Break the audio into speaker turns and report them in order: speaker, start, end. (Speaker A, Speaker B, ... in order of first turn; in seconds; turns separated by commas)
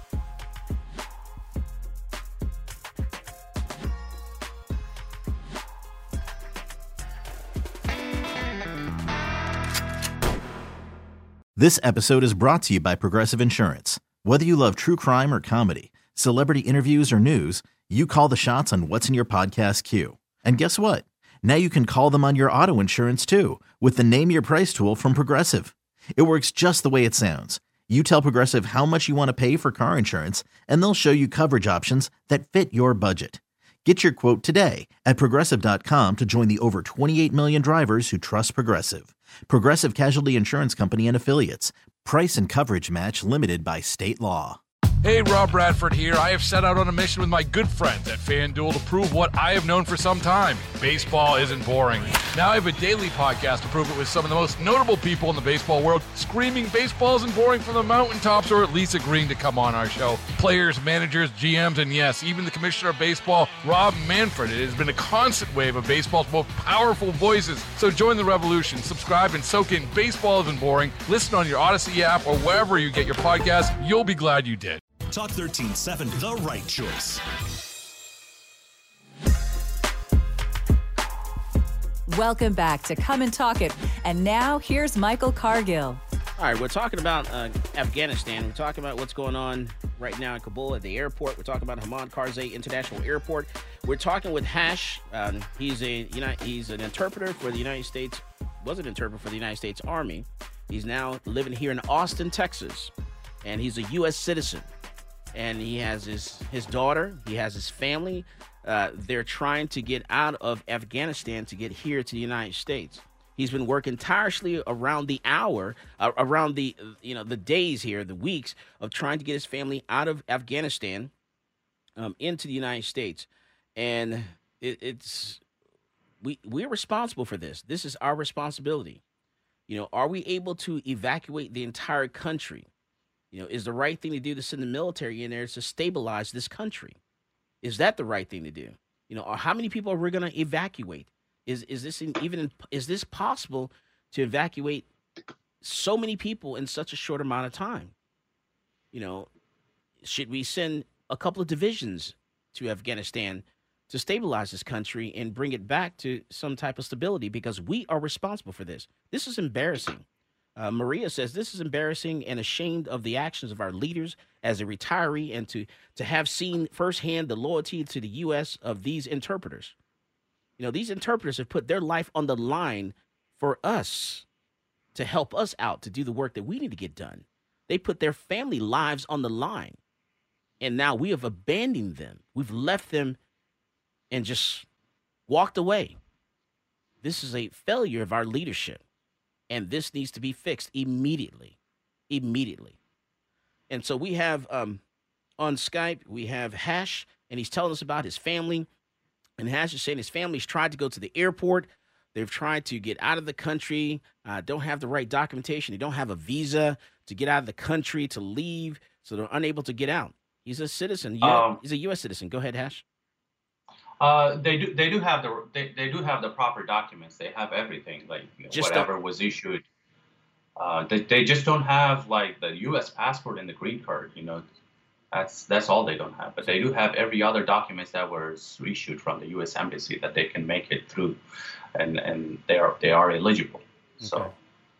Speaker A: 11.6-44.6, Speaker B: 45.0-74.8, Speaker C: 75.1-77.2, Speaker D: 82.1-86.0, Speaker E: 86.4-102.9, Speaker E: 103.4-104.7, Speaker E: 105.3-121.1, Speaker E: 122.0-125.4, Speaker E: 126.2-129.0, Speaker E: 129.7-132.7, Speaker E: 133.3-137.0, Speaker E: 137.6-144.9, Speaker E: 145.6-147.9, Speaker E: 148.9-149.3, Speaker E: 150.0-160.1, Speaker E: 160.6-169.8, Speaker E: 170.6-174.2, Speaker E: 174.9-179.8, Speaker E: 180.6-183.2, Speaker E: 184.1-184.7, Speaker E: 185.3-186.0, Speaker E: 187.0-188.8, Speaker E: 189.5-191.6, Speaker E: 192.1-192.8, Speaker E: 193.7-194.8, Speaker E: 195.4-198.7, Speaker E: 199.4-212.8, Speaker F: 211.2-211.6, Speaker F: 214.0-219.6, Speaker E: 218.5-218.9, Speaker F: 220.6-224.4, Speaker F: 225.1-231.2, Speaker F: 231.8-234.3, Speaker E: 234.0-234.3